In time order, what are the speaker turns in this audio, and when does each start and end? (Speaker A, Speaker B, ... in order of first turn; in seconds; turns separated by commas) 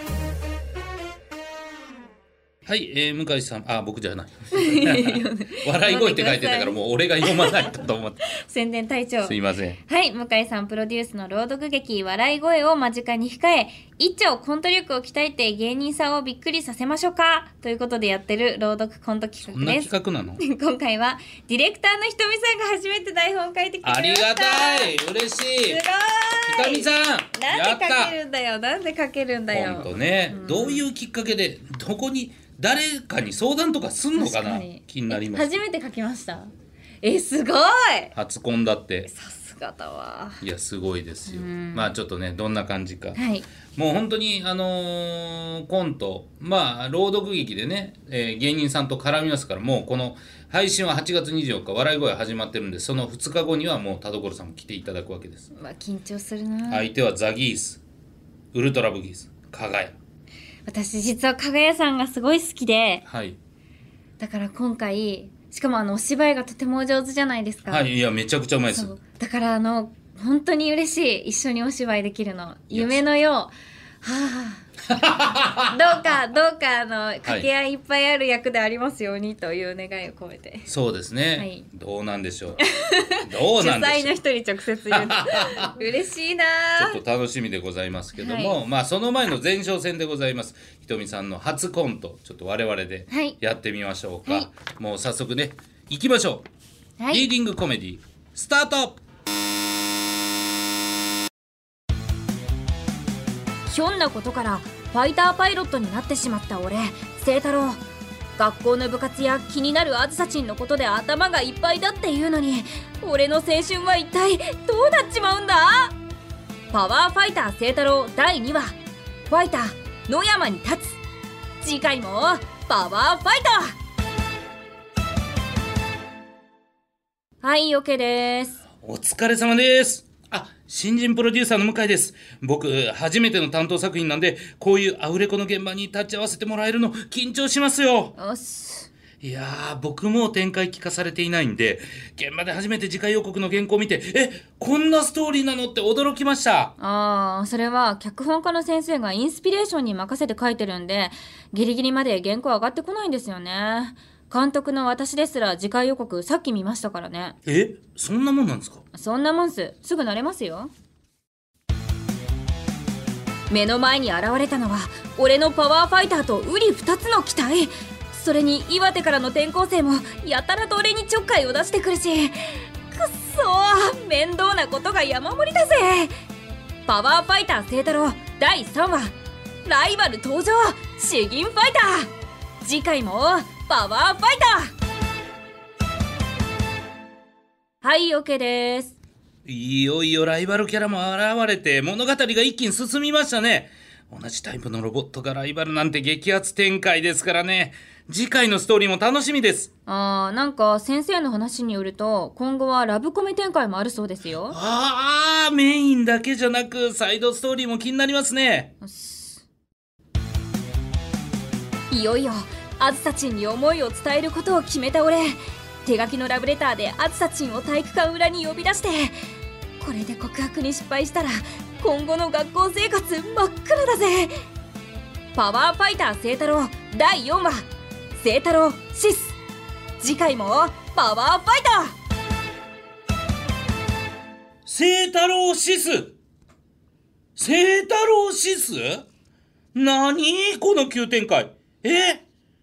Speaker A: 2.6-8.3, Speaker B: 4.5-7.7, Speaker B: 8.2-24.9, Speaker A: 9.2-9.8, Speaker A: 19.4-20.4, Speaker A: 23.8-25.8, Speaker B: 25.6-30.9, Speaker A: 26.5-28.1, Speaker A: 29.5-35.6, Speaker B: 34.1-36.5, Speaker B: 37.0-38.1, Speaker A: 38.1-39.1, Speaker B: 39.1-40.4, Speaker A: 40.4-43.2, Speaker B: 41.3-41.9, Speaker B: 43.1-43.5, Speaker A: 43.7-55.5, Speaker B: 55.5-56.9, Speaker A: 56.7-57.8, Speaker A: 58.5-60.0, Speaker B: 60.7-63.0, Speaker A: 63.0-63.4, Speaker B: 64.2-67.9, Speaker A: 67.7-68.9, Speaker B: 68.7-74.7, Speaker A: 72.7-73.0, Speaker A: 74.9-75.8, Speaker B: 75.7-80.7, Speaker A: 80.7-82.6, Speaker B: 81.4-81.7, Speaker B: 82.6-87.0, Speaker A: 83.2-84.1, Speaker A: 84.9-85.8, Speaker A: 86.8-96.5, Speaker B: 88.2-88.6, Speaker B: 93.1-93.4, Speaker B: 97.0-97.3, Speaker A: 97.1-99.0, Speaker B: 103.7-107.8, Speaker B: 108.4-115.9, Speaker B: 116.7-118.7, Speaker B: 119.3-121.0, Speaker B: 121.6-123.8, Speaker B: 127.4-128.6, Speaker A: 128.8-138.1, Speaker B: 138.2-138.9, Speaker A: 139.2-146.7, Speaker B: 146.8-157.4, Speaker A: 157.4-158.8, Speaker B: 158.9-160.7, Speaker B: 163.5-176.1, Speaker B: 176.8-182.1, Speaker B: 182.6-184.7, Speaker B: 187.8-188.9, Speaker A: 189.4-199.7, Speaker B: 199.8-204.6, Speaker A: 204.5-208.7, Speaker B: 208.8-209.4, Speaker B: 211.9-219.1, Speaker B: 219.8-224.3, Speaker B: 225.3-229.4, Speaker B: 230.0-231.9, Speaker A: 234.7-236.1, Speaker A: 237.3-239.1, Speaker A: 239.7-242.2